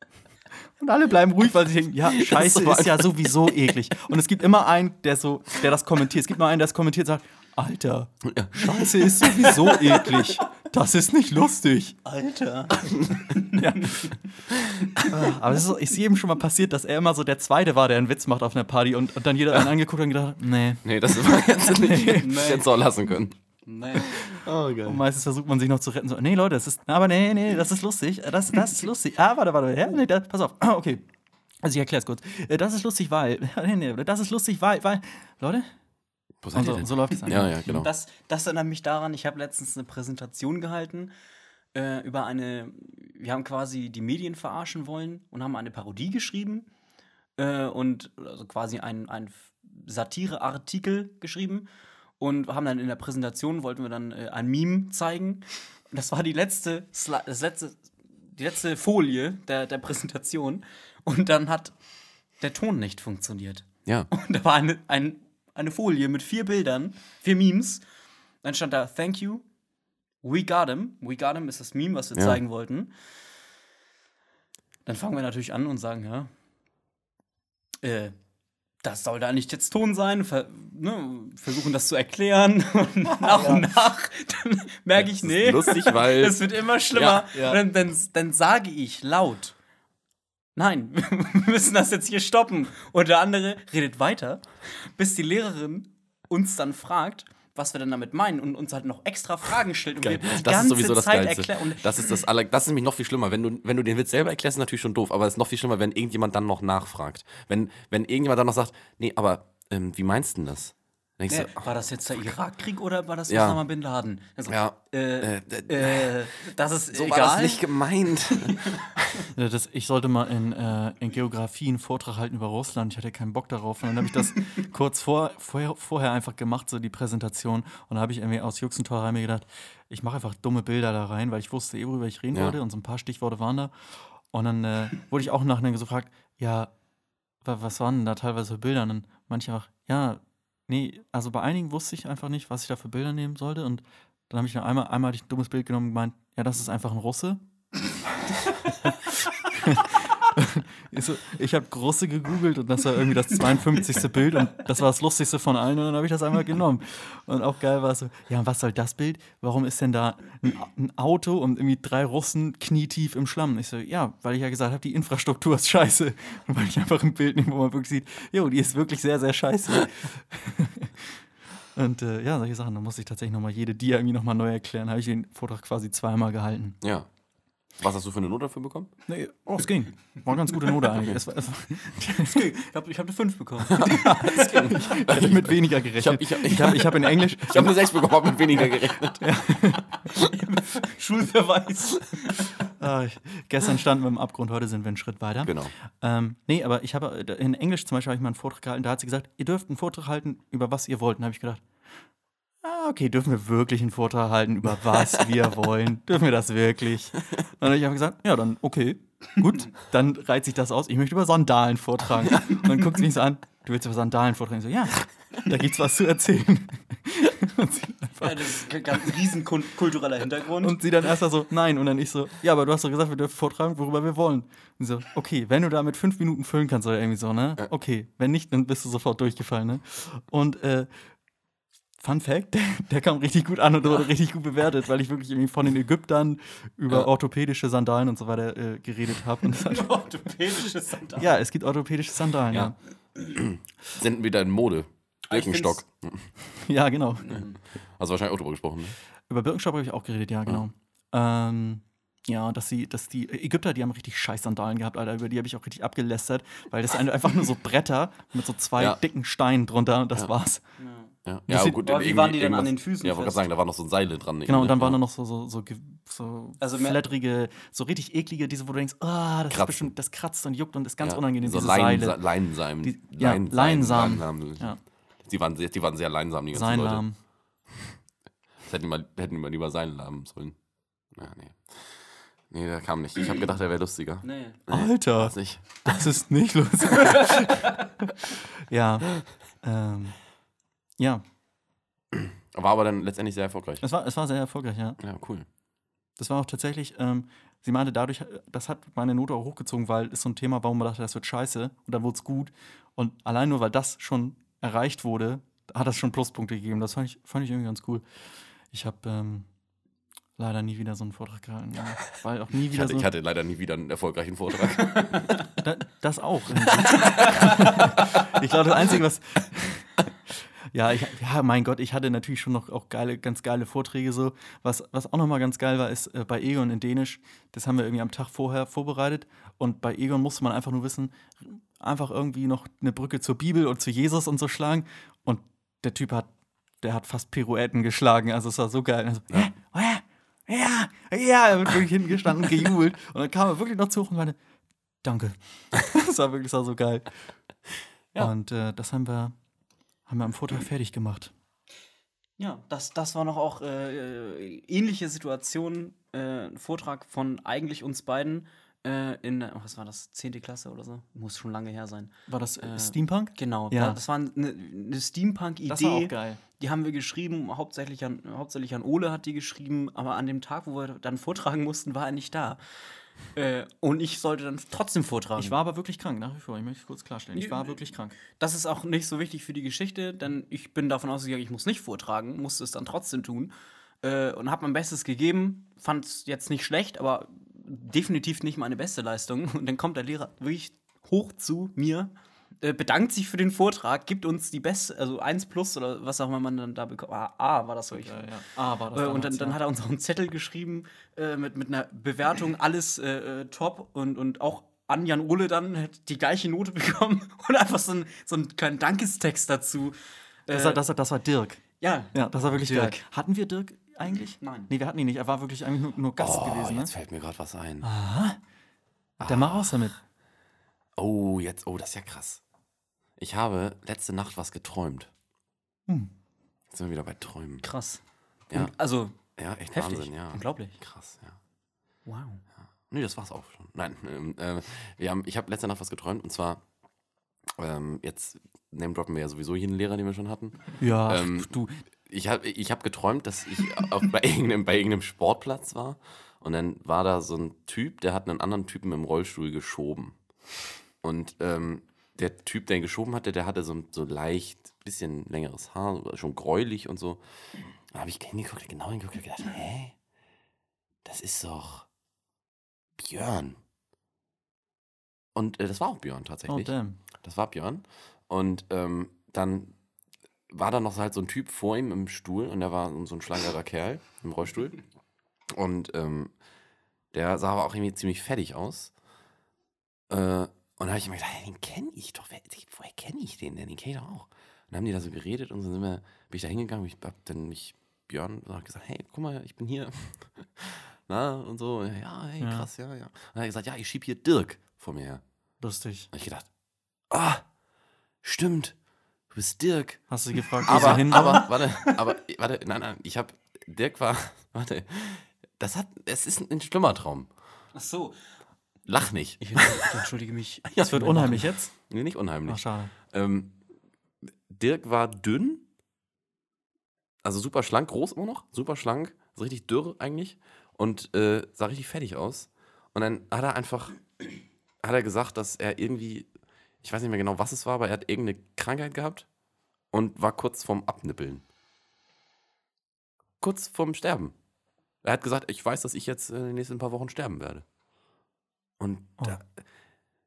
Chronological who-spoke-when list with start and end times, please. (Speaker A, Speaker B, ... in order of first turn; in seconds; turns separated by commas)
Speaker A: 0.8-12.0, Speaker B: 2.1-3.5, Speaker B: 8.2-9.6, Speaker C: 12.1-14.1, Speaker A: 13.5-14.1, Speaker A: 15.0-20.9, Speaker B: 20.8-23.4, Speaker A: 21.6-22.3, Speaker C: 22.1-22.7, Speaker C: 23.6-24.2, Speaker B: 23.9-25.0, Speaker A: 24.8-31.0, Speaker A: 31.6-35.7, Speaker B: 36.4-37.9, Speaker A: 36.5-37.6, Speaker C: 37.3-41.1, Speaker C: 41.7-46.7, Speaker C: 47.4-51.7, Speaker C: 52.2-61.7, Speaker C: 62.4-67.8, Speaker B: 63.9-64.1, Speaker C: 68.4-69.4, Speaker C: 70.2-72.9, Speaker B: 72.2-72.4, Speaker C: 74.9-76.3, Speaker C: 77.8-78.1, Speaker C: 78.8-89.5, Speaker A: 83.3-83.6, Speaker B: 85.0-87.3, Speaker C: 90.6-102.2, Speaker B: 100.0-111.7, Speaker C: 111.3-117.7, Speaker B: 113.3-113.6, Speaker B: 114.5-116.3, Speaker B: 116.9-119.2, Speaker C: 118.2-118.9, Speaker A: 119.3-133.7, Speaker A: 134.3-136.7, Speaker A: 137.4-147.4, Speaker A: 149.5-171.2, Speaker A: 171.8-176.8, Speaker B: 176.8-177.1, Speaker B: 177.8-178.9, Speaker A: 179.1-182.4, Speaker C: 182.1-184.8, Speaker B: 183.7-189.2, Speaker A: 183.8-187.8, Speaker A: 189.2-189.9, Speaker C: 190.1-192.6, Speaker A: 192.8-201.6, Speaker B: 195.4-195.7, Speaker A: 202.6-218.7, Speaker C: 218.2-220.8, Speaker A: 220.6-230.9, Speaker A: 232.0-239.9, Speaker C: 239.5-241.3, Speaker A: 241.2-242.8, Speaker B: 243.3-246.3, Speaker C: 245.3-245.8, Speaker A: 246.5-247.4, Speaker C: 247.3-247.5, Speaker B: 248.0-249.0, Speaker A: 249.3-260.6, Speaker C: 260.8-261.1, Speaker B: 261.2-265.0, Speaker A: 261.5-261.8, Speaker C: 261.8-263.5, Speaker A: 264.5-272.2, Speaker C: 266.6-267.0, Speaker B: 269.5-269.9, Speaker B: 271.0-274.7, Speaker A: 272.8-274.8, Speaker B: 275.2-277.0, Speaker A: 276.5-277.1, Speaker B: 278.6-280.6, Speaker B: 281.1-285.8, Speaker C: 284.2-284.6, Speaker A: 284.7-290.2, Speaker A: 291.0-291.2, Speaker B: 292.1-293.8, Speaker A: 293.8-295.0, Speaker B: 295.0-295.5, Speaker A: 296.2-308.0, Speaker A: 308.7-309.5, Speaker A: 310.4-313.1, Speaker B: 312.7-315.4, Speaker A: 315.6-336.3, Speaker A: 336.8-344.4, Speaker A: 345.0-347.1, Speaker A: 348.2-349.3, Speaker A: 350.1-351.3, Speaker C: 352.4-372.6, Speaker A: 362.3-364.0, Speaker A: 365.7-366.4, Speaker C: 373.3-375.6, Speaker A: 375.4-378.2, Speaker C: 377.4-398.3, Speaker A: 397.9-399.6, Speaker C: 398.9-410.8, Speaker A: 410.5-411.6, Speaker C: 411.8-413.0, Speaker A: 412.1-416.9, Speaker C: 414.4-414.7, Speaker B: 416.2-417.9, Speaker A: 417.8-418.4, Speaker B: 419.2-419.8, Speaker A: 419.2-420.0, Speaker B: 421.0-422.4, Speaker B: 423.2-425.1, Speaker B: 426.7-427.6, Speaker C: 427.6-428.0, Speaker C: 428.5-429.2, Speaker B: 429.4-431.4, Speaker C: 429.7-430.8, Speaker C: 432.1-432.4, Speaker B: 432.9-436.6, Speaker B: 437.6-441.5, Speaker A: 440.8-441.8, Speaker B: 442.1-450.2, Speaker B: 451.0-457.2, Speaker B: 457.9-459.9, Speaker B: 461.0-461.9, Speaker B: 463.0-463.6, Speaker B: 465.4-469.7, Speaker A: 466.5-467.0, Speaker B: 470.5-474.8, Speaker B: 475.5-476.3, Speaker B: 477.1-478.9, Speaker B: 480.1-495.2, Speaker A: 492.4-492.7, Speaker A: 495.6-496.1, Speaker B: 496.1-496.5, Speaker B: 497.1-497.4, Speaker B: 498.2-498.8, Speaker B: 499.3-500.0, Speaker A: 500.1-501.5, Speaker B: 500.6-507.3, Speaker C: 500.7-502.0, Speaker C: 507.8-508.2, Speaker B: 508.9-510.1, Speaker C: 509.4-511.5, Speaker A: 510.8-511.7, Speaker B: 511.1-513.5, Speaker A: 512.5-512.9, Speaker B: 514.5-515.6, Speaker B: 517.2-524.2, Speaker B: 524.8-526.3, Speaker B: 526.8-529.3, Speaker B: 529.9-531.4, Speaker B: 533.4-534.3, Speaker B: 535.0-537.6, Speaker B: 538.8-539.5